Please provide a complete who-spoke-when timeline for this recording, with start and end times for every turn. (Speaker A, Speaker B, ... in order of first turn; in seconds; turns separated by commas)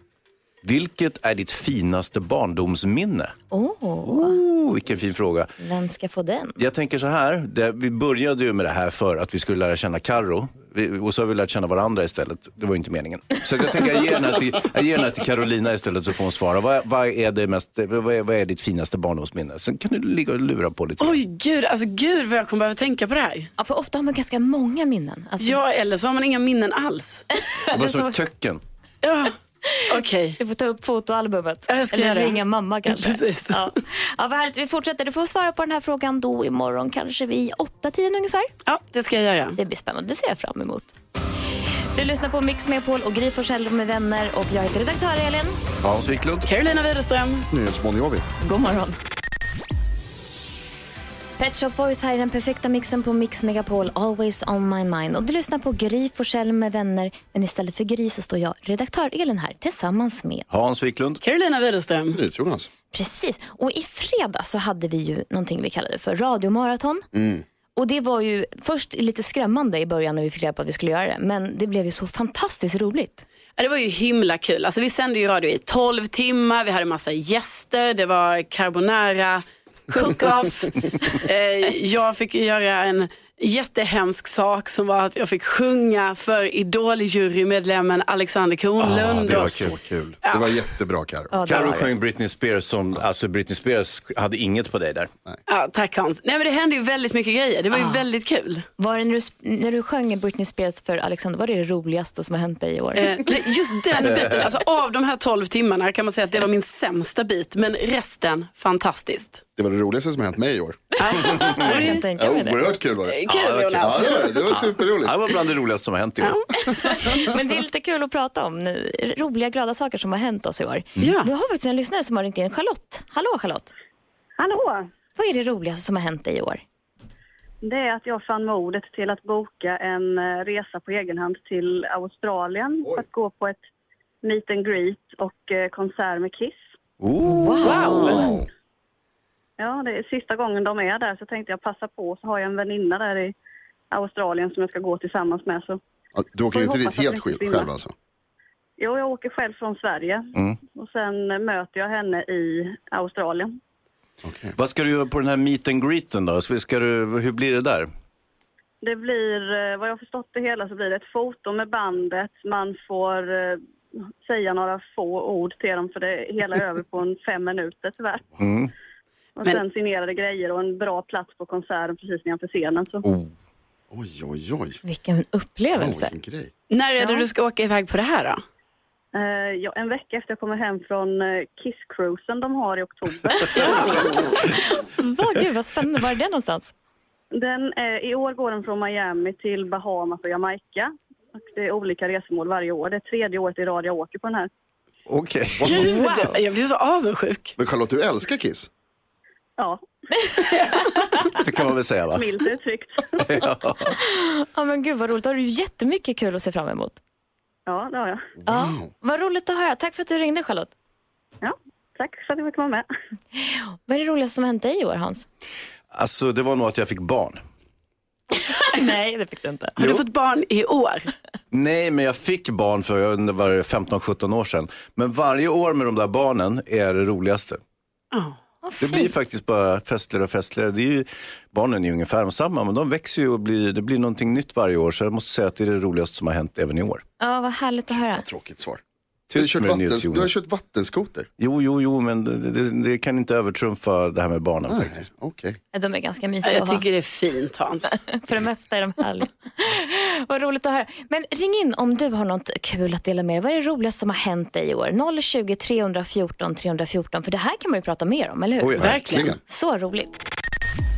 Speaker A: 0.6-3.3, Speaker B: 3.5-4.4, Speaker A: 4.0-5.5, Speaker B: 5.6-6.6, Speaker A: 6.6-21.2, Speaker C: 21.0-23.5, Speaker B: 23.6-25.6, Speaker C: 25.4-27.2, Speaker B: 27.3-28.1, Speaker A: 27.7-28.6, Speaker C: 29.0-29.3, Speaker B: 29.7-38.5, Speaker C: 29.9-30.4, Speaker C: 31.7-33.7, Speaker C: 38.6-39.5, Speaker B: 39.5-40.9, Speaker B: 41.9-45.6, Speaker A: 45.8-46.5, Speaker C: 46.4-47.5, Speaker D: 47.5-48.2, Speaker B: 48.4-49.0, Speaker B: 51.4-60.5, Speaker A: 60.5-61.2, Speaker C: 61.2-62.2, Speaker D: 62.1-62.7, Speaker B: 62.9-67.0, Speaker D: 67.1-67.4, Speaker B: 67.7-73.2, Speaker C: 73.6-89.7, Speaker A: 88.8-89.7, Speaker D: 88.8-91.3, Speaker C: 90.2-90.5, Speaker B: 91.3-91.9, Speaker A: 91.4-95.1, Speaker C: 95.5-98.6, Speaker B: 98.8-103.2, Speaker C: 103.0-109.4, Speaker A: 104.0-104.4, Speaker D: 109.5-113.2, Speaker C: 111.0-112.0, Speaker B: 111.0-112.7, Speaker C: 113.1-114.3, Speaker A: 113.3-116.4, Speaker D: 113.8-115.2, Speaker B: 116.6-123.7, Speaker C: 121.0-121.3, Speaker E: 124.4-124.9, Speaker B: 125.2-126.6, Speaker E: 127.6-133.6, Speaker E: 134.2-136.7, Speaker A: 137.0-138.4, Speaker B: 137.3-138.2, Speaker D: 137.6-138.4, Speaker E: 139.6-143.3, Speaker E: 143.9-145.8, Speaker D: 146.2-147.9, Speaker E: 146.5-147.7, Speaker E: 148.8-153.6, Speaker D: 154.2-154.5, Speaker A: 154.6-157.9, Speaker E: 158.8-163.6, Speaker E: 164.2-168.2, Speaker A: 168.4-168.7, Speaker E: 169.4-173.1, Speaker D: 173.9-174.8, Speaker B: 174.8-176.1, Speaker D: 175.8-176.5, Speaker C: 176.7-178.4, Speaker B: 177.0-177.2, Speaker E: 179.1-184.3, Speaker B: 183.4-186.7, Speaker E: 187.3-194.5, Speaker A: 195.1-195.9, Speaker C: 195.6-197.6, Speaker B: 195.7-196.3, Speaker D: 197.6-198.7, Speaker E: 199.6-200.3, Speaker A: 201.4-202.4, Speaker E: 202.1-203.3, Speaker A: 203.2-203.9, Speaker B: 204.0-207.0, Speaker E: 207.7-208.3, Speaker B: 208.4-210.7, Speaker D: 208.5-208.8, Speaker E: 211.4-212.9, Speaker B: 213.4-215.3, Speaker A: 215.9-217.4, Speaker B: 218.5-219.9, Speaker C: 219.8-221.1, Speaker A: 221.5-227.6, Speaker B: 228.6-229.1, Speaker A: 228.8-237.0, Speaker B: 237.2-238.2, Speaker D: 238.1-238.8, Speaker A: 239.3-240.3, Speaker D: 239.3-241.3, Speaker A: 241.4-245.0, Speaker D: 244.7-245.6, Speaker B: 245.7-246.8, Speaker C: 246.4-247.9, Speaker B: 247.9-260.1, Speaker A: 258.6-259.0, Speaker D: 258.8-259.4, Speaker C: 258.8-259.3